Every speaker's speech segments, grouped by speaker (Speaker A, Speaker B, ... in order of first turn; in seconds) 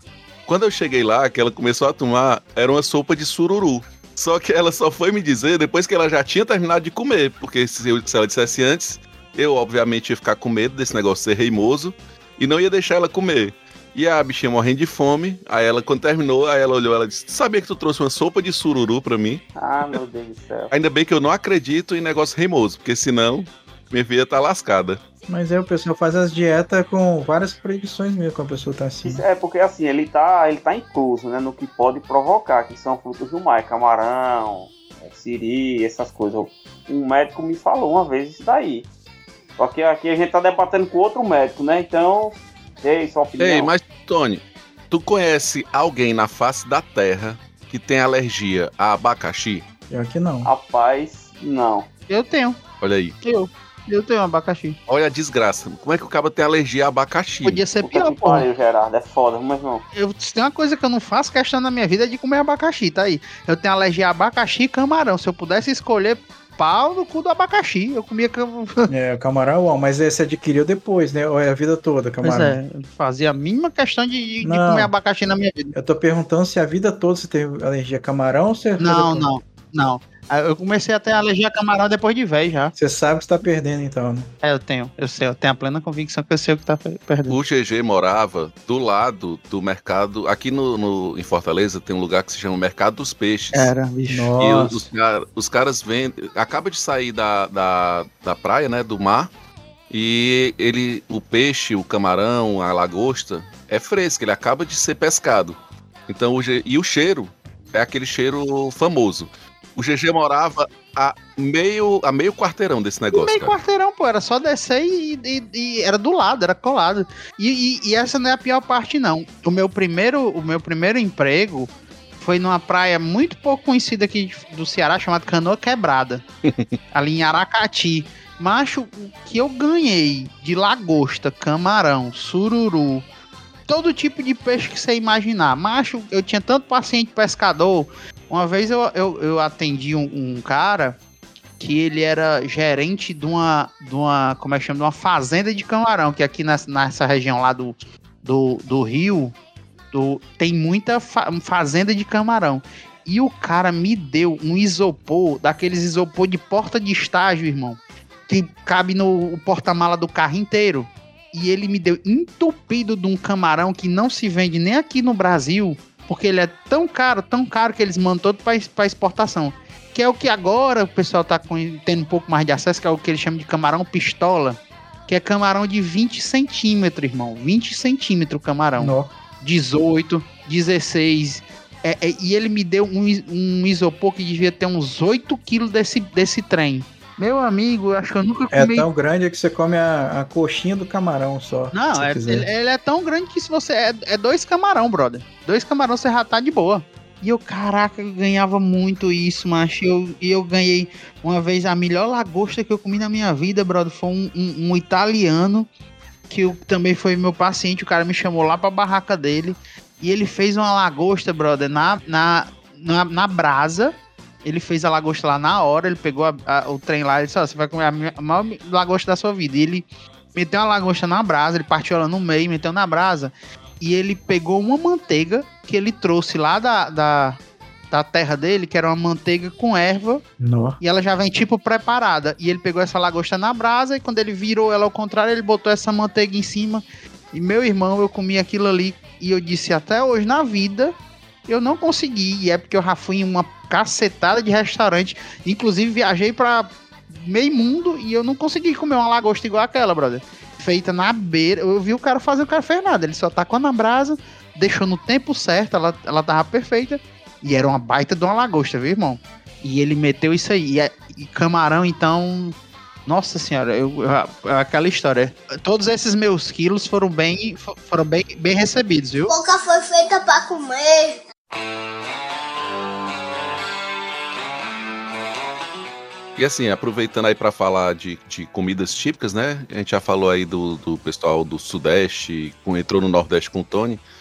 Speaker A: 0.5-19.4, 20.7-25.0, 43.4-49.6, 52.8-53.1, 54.9-57.6, 87.3-93.7, 94.4-99.3, 99.9-113.5, 126.5-126.7, 276.4-284.0
Speaker B: 19.6-20.7, 29.0-38.9, 39.6-43.7, 50.4-51.9, 57.8-59.8
Speaker C: 25.3-29.2, 49.9-50.5, 68.9-72.6, 74.4-74.9, 75.7-79.3, 82.8-84.3, 94.1-94.8, 178.8-179.1, 188.5-192.5, 230.4-230.8
Speaker D: 52.1-52.6, 53.2-54.8, 57.4-58.5, 59.9-68.9, 72.2-75.7, 78.8-82.7, 84.4-87.4, 93.5-94.3, 113.1-126.2, 126.9-133.0, 133.7-141.0, 141.6-149.3, 149.9-188.9, 191.7-205.7, 206.3-227.4, 227.9-230.2, 230.8-240.9, 241.5-269.3
Speaker E: 269.3-271.2